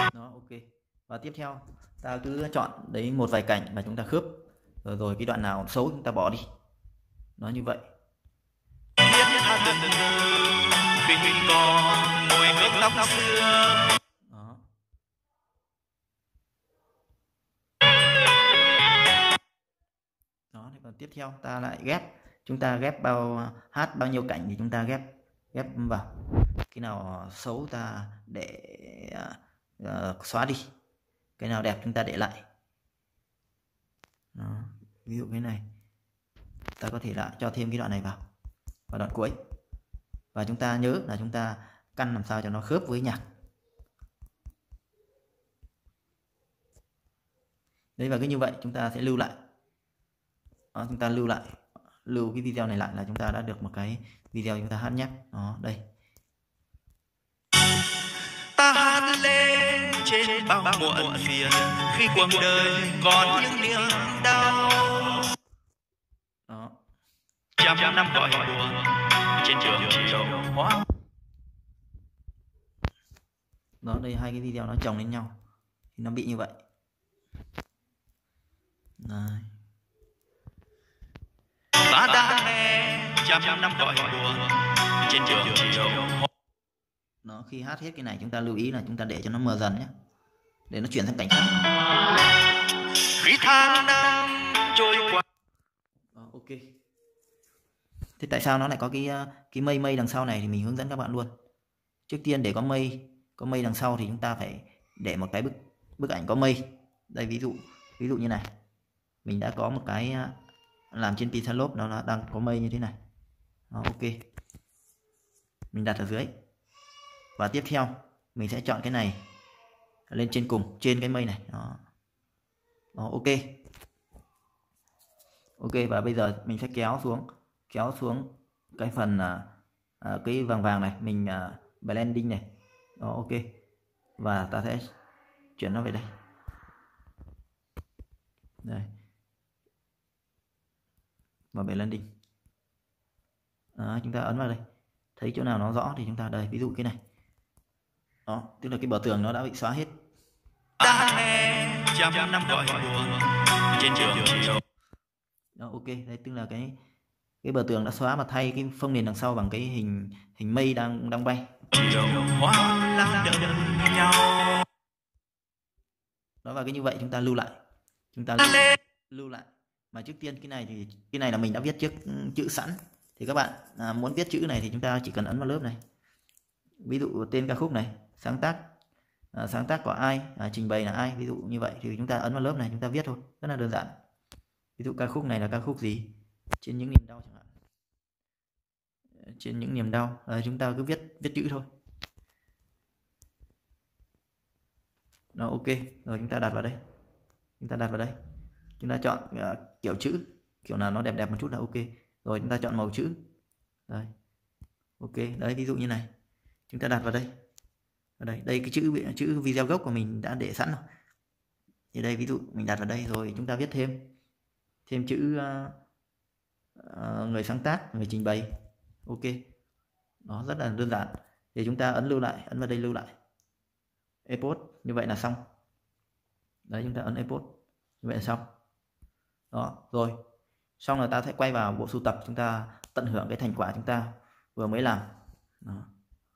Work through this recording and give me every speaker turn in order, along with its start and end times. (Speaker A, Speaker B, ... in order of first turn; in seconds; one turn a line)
Speaker A: 0.1-4.3
Speaker A: 4.8-6.5
Speaker A: 7.4-7.8
Speaker B: 9.0-13.9
Speaker A: 14.3-14.6
Speaker A: 20.5-26.1
Speaker A: 26.7-30.7
Speaker A: 31.4-32.4
Speaker A: 34.3-35.6
Speaker A: 36.8-38.2
Speaker A: 38.9-39.3
Speaker A: 40.3-43.2
Speaker A: 48.0-49.3
Speaker A: 50.7-55.8
Speaker B: 58.5-65.3
Speaker A: 66.5-66.7
Speaker B: 67.6-70.8
Speaker A: 73.8-75.3
Speaker A: 76.0-76.5
Speaker A: 79.0-79.5
Speaker B: 81.8-86.2
Speaker A: 87.2-89.9
Speaker A: 90.7-91.7
Speaker B: 93.0-95.2
Speaker A: 96.1-96.7
Speaker A: 98.2-101.3
Speaker A: 102.1-108.5
Speaker A: 109.2-110.3
Speaker A: 110.9-112.9
Speaker A: 113.7-114.2
Speaker A: 115.7-116.3
Speaker A: 117.4-119.2
Speaker A: 120.1-121.8
Speaker A: 122.9-123.6
Speaker A: 125.6-129.5
Speaker A: 130.0-132.4
Speaker A: 133.0-133.4
Speaker A: 134.2-134.9
Speaker A: 135.6-136.1
Speaker A: 138.6-138.9
Speaker A: 141.5-142.1
Speaker A: 143.8-144.6
Speaker A: 145.2-147.0
Speaker A: 148.2-149.9
Speaker B: 150.8-154.6
Speaker A: 155.6-156.8
Speaker A: 157.4-161.5
Speaker B: 161.7-164.6
Speaker A: 166.4-167.5
Speaker A: 168.1-175.8
Speaker A: 176.8-178.6
Speaker A: 179.3-183.9
Speaker A: 184.8-186.1
Speaker A: 186.6-187.5
Speaker A: 189.2-191.7
Speaker A: 195.3-196.8
Speaker A: 197.6-198.1
Speaker A: 198.8-203.2
Speaker A: 205.0-206.1
Speaker A: 206.7-207.3
Speaker A: 208.2-210.8
Speaker A: 211.9-214.1
Speaker A: 214.8-215.7
Speaker A: 216.8-218.5
Speaker A: 219.1-219.4
Speaker A: 220.2-223.1
Speaker A: 224.2-225.4
Speaker A: 226.7-228.4
Speaker A: 229.5-230.2
Speaker A: 230.8-235.1
Speaker A: 235.6-235.9